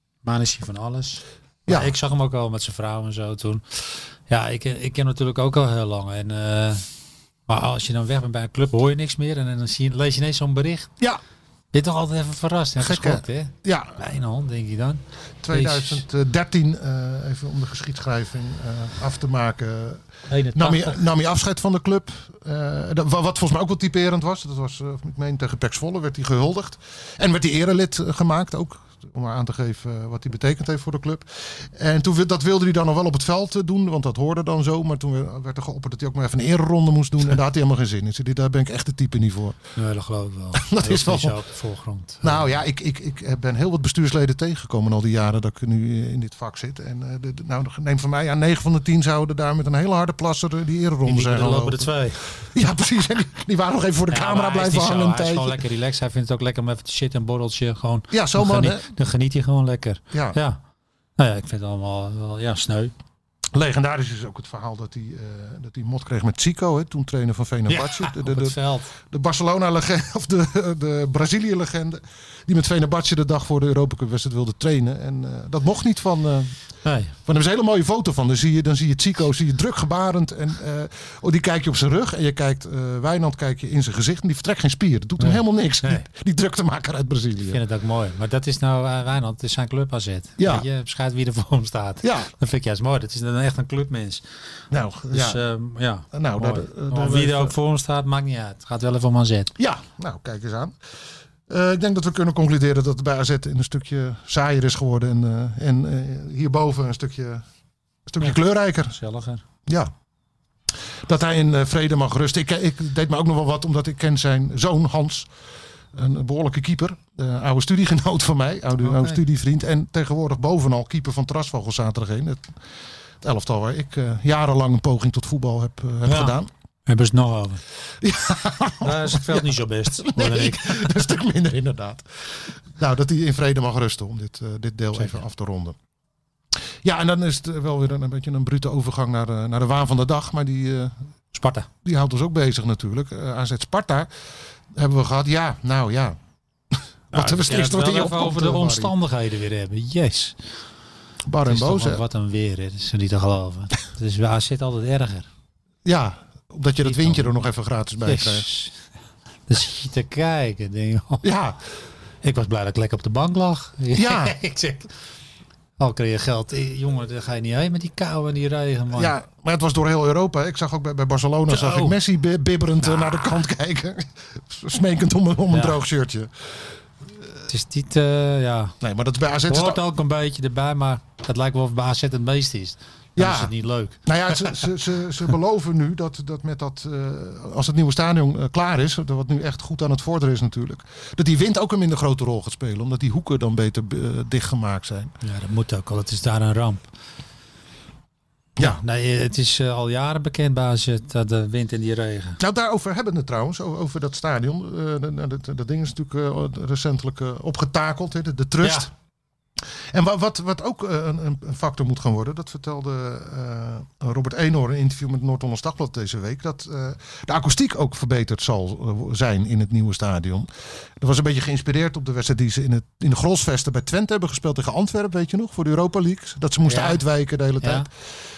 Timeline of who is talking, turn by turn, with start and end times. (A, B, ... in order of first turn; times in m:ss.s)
0:00.2-0:03.8 A
0:01.7-0:01.9 B
0:04.3-0:06.8 A
0:07.5-0:10.9 A
0:11.7-0:15.0 A
0:12.8-0:13.9 B
0:15.4-0:39.6 B
0:15.5-0:16.0 A
0:20.3-0:21.0 A
0:39.8-0:42.4 A
0:40.5-0:41.4 B
0:42.2-0:55.6 B
0:51.0-0:52.2 A
0:54.1-1:00.6 A
0:58.1-0:58.8 B
1:00.1-1:00.4 B
1:01.2-1:02.9 A
1:03.5-1:16.5 B
1:07.7-1:08.9 A
1:16.8-1:17.1 A
1:17.2-1:27.6 B
1:25.2-1:26.0 A
1:27.5-1:34.2 A
1:30.4-1:30.7 B
1:32.0-1:32.3 B
1:34.7-1:35.4 B
1:35.1-1:39.5 A
1:36.1-1:37.5 B
1:39.6-1:40.8 B
1:41.5-1:47.4 B
1:48.1-1:49.0 B
1:48.9-1:49.4 A
1:49.6-1:49.9 B
1:51.0-1:55.3 B
1:55.9-2:02.5 B
1:58.8-1:59.2 A
2:03.2-2:06.5 B
2:06.0-2:07.6 A
2:08.0-2:15.8 B
2:08.8-2:10.9 A
2:15.0-2:15.2 A
2:16.8-2:20.9 B
2:21.3-2:21.7 A
2:21.8-2:24.1 B
2:24.7-2:26.2 B
2:26.7-2:28.9 B
2:27.1-2:30.4 A
2:31.2-2:32.0 B
2:31.4-2:35.3 A
2:35.8-2:38.5 B
2:36.8-2:37.3 A
2:38.0-2:38.8 A
2:39.5-2:41.2 A
2:41.2-2:41.6 B
2:42.2-2:44.9 A
2:43.9-2:44.4 B
2:45.8-2:49.1 A
2:48.9-2:56.3 B
2:51.5-2:52.0 A
2:52.8-2:53.2 A
2:55.5-2:55.8 A
2:57.5-2:58.7 A
2:58.8-2:59.8 B
2:59.5-3:04.6 A
3:03.2-3:03.5 B
3:04.0-3:15.1 B
3:15.2-3:16.8 A
3:18.6-3:22.4 A
3:22.4-3:28.9 B
3:28.6-3:28.9 A
3:29.9-3:47.9 B
3:46.6-3:47.0 A
3:47.6-3:47.9 A